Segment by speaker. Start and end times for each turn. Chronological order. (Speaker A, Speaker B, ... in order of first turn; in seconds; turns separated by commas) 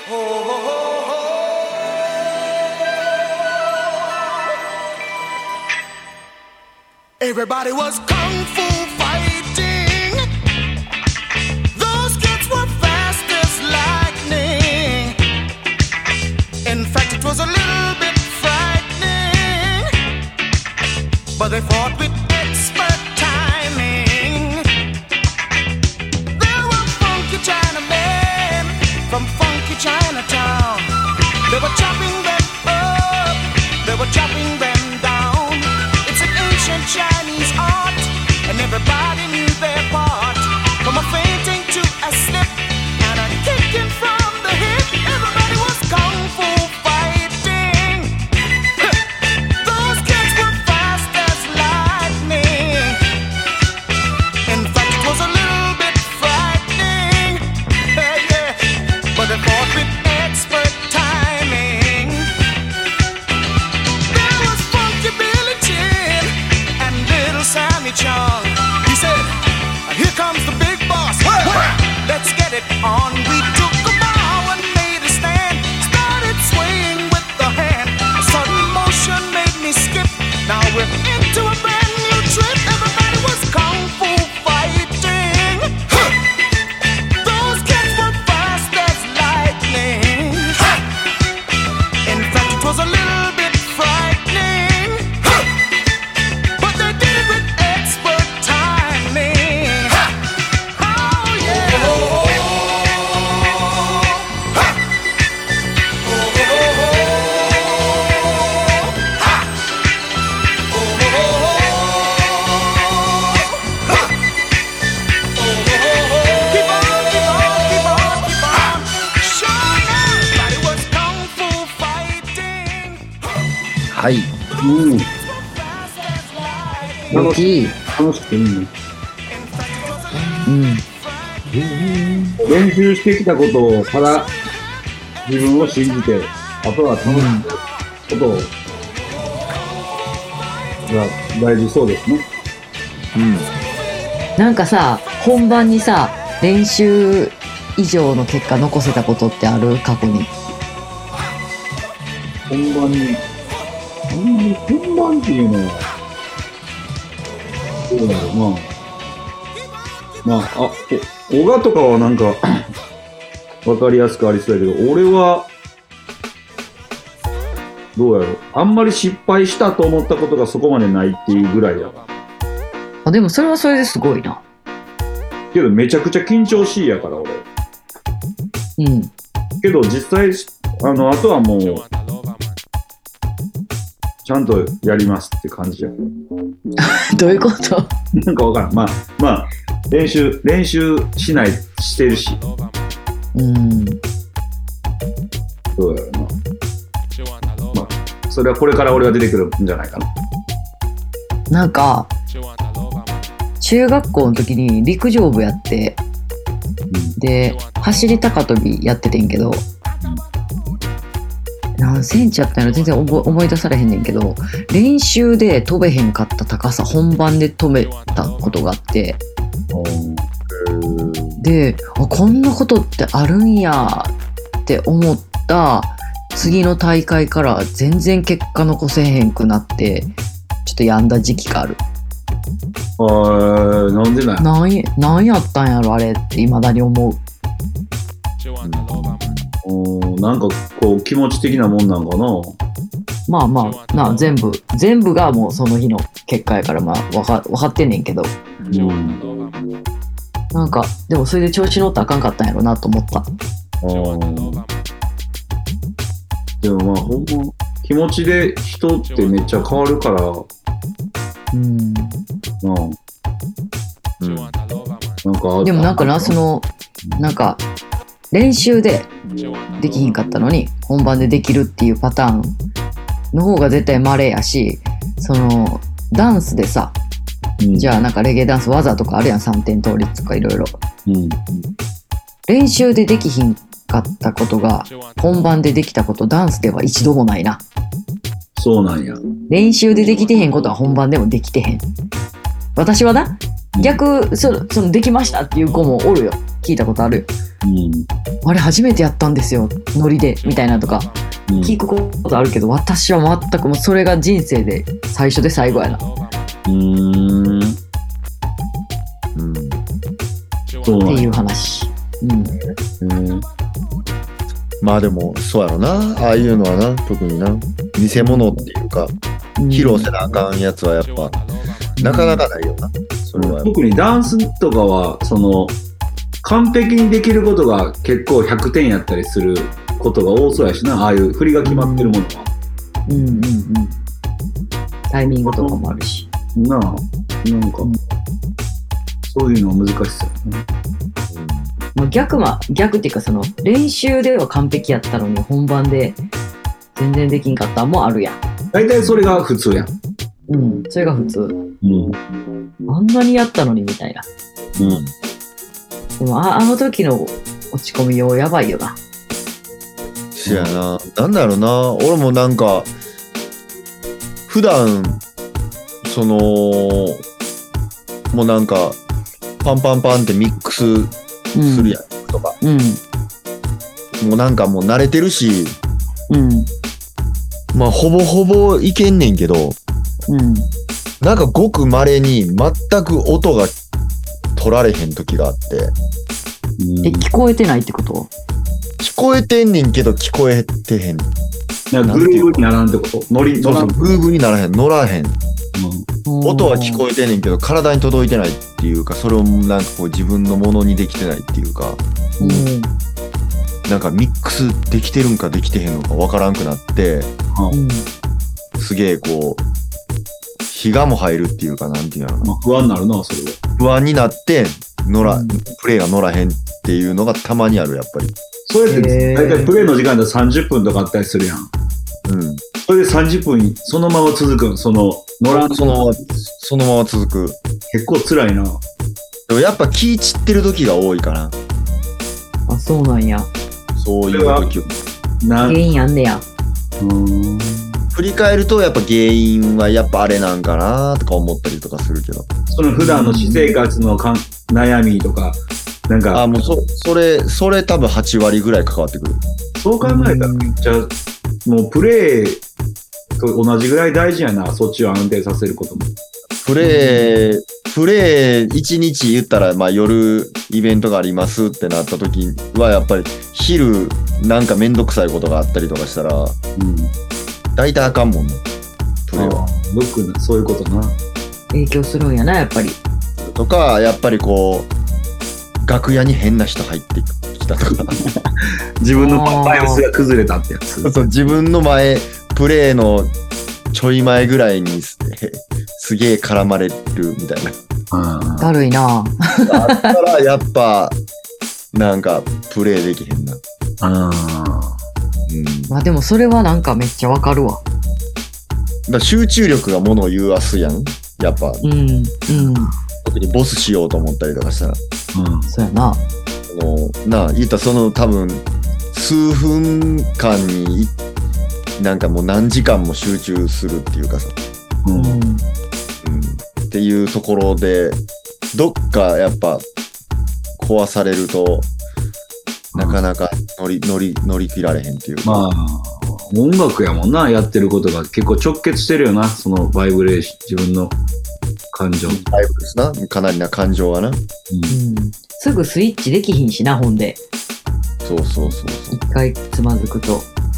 Speaker A: 7.2-10.2, Speaker A: 11.7-15.2, Speaker A: 16.6-19.9, Speaker A: 21.4-24.7, Speaker A: 26.4-30.9, Speaker A: 31.5-48.1, Speaker A: 49.6-53.0, Speaker A: 54.5-58.6, Speaker A: 59.1-62.3, Speaker A: 64.1-69.3, Speaker A: 69.9-86.2, Speaker A: 87.2-90.8, Speaker A: 92.0-95.5, Speaker A: 96.6-100.1, Speaker A: 100.7-104.5, Speaker A: 106.1-109.4, Speaker A: 110.7-114.1, Speaker A: 115.5-123.3, Speaker B: 123.9-124.3, Speaker C: 124.6-125.1, Speaker A: 125.2-127.2, Speaker D: 127.1-127.8, Speaker C: 127.1-128.7, Speaker A: 129.3-130.5, Speaker D: 130.4-130.8, Speaker A: 131.0-131.4, Speaker B: 131.7-132.3, Speaker C: 132.4-134.3, Speaker C: 135.2-138.5, Speaker D: 137.1-137.5, Speaker C: 140.9-142.2, Speaker B: 143.1-143.5, Speaker D: 144.4-150.3, Speaker C: 152.5-153.2, Speaker C: 154.1-155.9, Speaker C: 157.9-158.7, Speaker C: 160.2-162.4, Speaker C: 163.6-165.5, Speaker C: 167.9-172.0, Speaker D: 173.1-174.4, Speaker C: 175.5-177.4, Speaker D: 178.8-179.1, Speaker C: 179.6-181.8, Speaker C: 184.2-185.9, Speaker D: 186.8-187.9, Speaker C: 188.2-192.4, Speaker D: 193.3-194.0, Speaker C: 195.8-196.3, Speaker C: 197.7-200.1, Speaker D: 201.5-202.1, Speaker D: 203.6-206.0, Speaker C: 206.9-207.2, Speaker D: 207.2-209.7, Speaker D: 211.8-219.2, Speaker C: 219.7-220.3, Speaker B: 220.5-221.4, Speaker D: 221.4-224.1, Speaker D: 224.7-230.1, Speaker D: 230.6-231.8, Speaker C: 233.0-234.5, Speaker D: 234.4-237.2, Speaker B: 238.6-239.5, Speaker C: 239.6-242.6, Speaker D: 243.3-248.3, Speaker C: 248.7-249.2, Speaker A: 249.2-249.6, Speaker D: 250.5-253.3, Speaker C: 253.8-254.6, Speaker C: 256.6-260.5, Speaker D: 261.5-262.2, Speaker C: 262.6-263.0, Speaker B: 264.2-264.6, Speaker C: 265.2-266.4, Speaker D: 265.6-267.6, Speaker D: 268.3-269.1, Speaker D: 269.7-272.6, Speaker D: 273.3-276.9, Speaker C: 277.6-277.9, Speaker D: 277.7-280.8, Speaker C: 281.1-281.5, Speaker D: 282.5-287.6, Speaker C: 288.6-289.2, Speaker D: 289.5-291.9, Speaker D: 292.8-297.3, Speaker C: 293.7-294.0, Speaker C: 297.6-298.1, Speaker D: 298.4-306.0, Speaker C: 301.5-301.8, Speaker C: 306.7-307.8, Speaker B: 309.4-309.8, Speaker C: 310.8-311.3, Speaker D: 311.0-312.6, Speaker C: 313.0-313.4, Speaker B: 314.8-319.1, Speaker D: 318.1-318.6, Speaker D: 319.6-320.4, Speaker B: 319.7-321.4, Speaker D: 322.0-322.5, Speaker B: 322.0-323.7, Speaker C: 323.4-325.8, Speaker C: 326.4-332.5, Speaker D: 331.6-332.2, Speaker D: 333.1-333.9, Speaker D: 335.1-336.3, Speaker C: 335.4-335.8, Speaker C: 336.6-337.9, Speaker C: 339.3-340.7, Speaker B: 341.3-341.7, Speaker D: 341.9-346.2, Speaker D: 346.9-348.4, Speaker C: 348.7-349.9, Speaker B: 349.0-349.3, Speaker D: 350.5-351.6, Speaker C: 351.8-352.2, Speaker D: 352.9-354.3, Speaker C: 354.8-355.0, Speaker B: 354.8-355.1, Speaker D: 356.2-359.0, Speaker B: 360.4-362.9, Speaker C: 360.4-360.7, Speaker B: 364.5-365.2, Speaker B: 366.0-367.2, Speaker B: 368.3-369.0, Speaker B: 369.6-372.6, Speaker D: 371.5-372.0, Speaker D: 372.6-373.0, Speaker B: 374.2-375.8, Speaker D: 376.3-376.7, Speaker B: 377.7-379.8, Speaker D: 380.3-380.7, Speaker B: 381.2-383.7, Speaker B: 384.6-385.9, Speaker C: 386.8-387.3, Speaker D: 387.0-388.3, Speaker B: 389.0-391.3, Speaker C: 391.9-394.1, Speaker B: 392.0-392.7, Speaker B: 393.6-395.4, Speaker C: 395.8-396.1, Speaker D: 396.3-397.0, Speaker B: 396.4-402.0, Speaker C: 402.4-402.7, Speaker D: 402.4-402.9, Speaker B: 403.9-407.3, Speaker D: 407.7-408.1, Speaker B: 408.8-409.6, Speaker B: 410.7-412.6, Speaker C: 412.4-413.6, Speaker B: 413.8-418.3, Speaker D: 415.2-415.6, Speaker C: 418.7-421.7, Speaker D: 418.9-419.7, Speaker B: 422.3-422.6, Speaker C: 422.8-426.1, Speaker B: 425.5-427.6, Speaker C: 427.9-428.8, Speaker B: 429.5-431.6, Speaker D: 432.7-433.5, Speaker B: 433.9-434.9, Speaker C: 434.3-434.7, Speaker C: 435.4-435.8, Speaker D: 435.6-436.4, Speaker C: 437.0-438.1, Speaker B: 438.1-442.5, Speaker C: 442.7-446.6, Speaker D: 442.9-443.7, Speaker B: 446.3-449.4, Speaker C: 449.8-451.1, Speaker D: 450.0-450.7, Speaker C: 451.6-452.6, Speaker C: 453.4-456.1, Speaker B: 456.6-466.6, Speaker D: 456.8-457.3, Speaker C: 466.8-467.1, Speaker B: 467.8-468.6, Speaker B: 469.3-469.6, Speaker C: 469.4-471.2, Speaker D: 471.7-473.0, Speaker B: 473.4-474.9, Speaker B: 475.8-478.1, Speaker C: 477.9-481.2, Speaker D: 479.2-480.0, Speaker B: 481.0-483.3, Speaker B: 483.9-487.8, Speaker C: 488.1-488.7, Speaker D: 488.6-490.2, Speaker B: 489.7-491.2, Speaker B: 491.9-493.6, Speaker C: 494.0-495.0, Speaker B: 495.5-495.9, Speaker D: 495.9-497.8, Speaker B: 499.1-501.8, Speaker D: 501.8-502.9, Speaker B: 503.2-505.0, Speaker C: 505.3-505.7, Speaker D: 505.7-506.2, Speaker B: 506.7-511.1, Speaker B: 512.0-514.5, Speaker C: 515.0-515.4, Speaker D: 515.1-515.6, Speaker B: 516.2-518.2, Speaker B: 518.7-519.9, Speaker B: 520.8-521.9, Speaker C: 522.9-523.2, Speaker B: 522.9-525.7, Speaker C: 525.4-531.2, Speaker C: 531.9-532.5, Speaker B: 532.3-534.4, Speaker C: 534.7-535.0, Speaker D: 534.9-537.4, Speaker B: 538.2-539.2, Speaker D: 539.1-540.5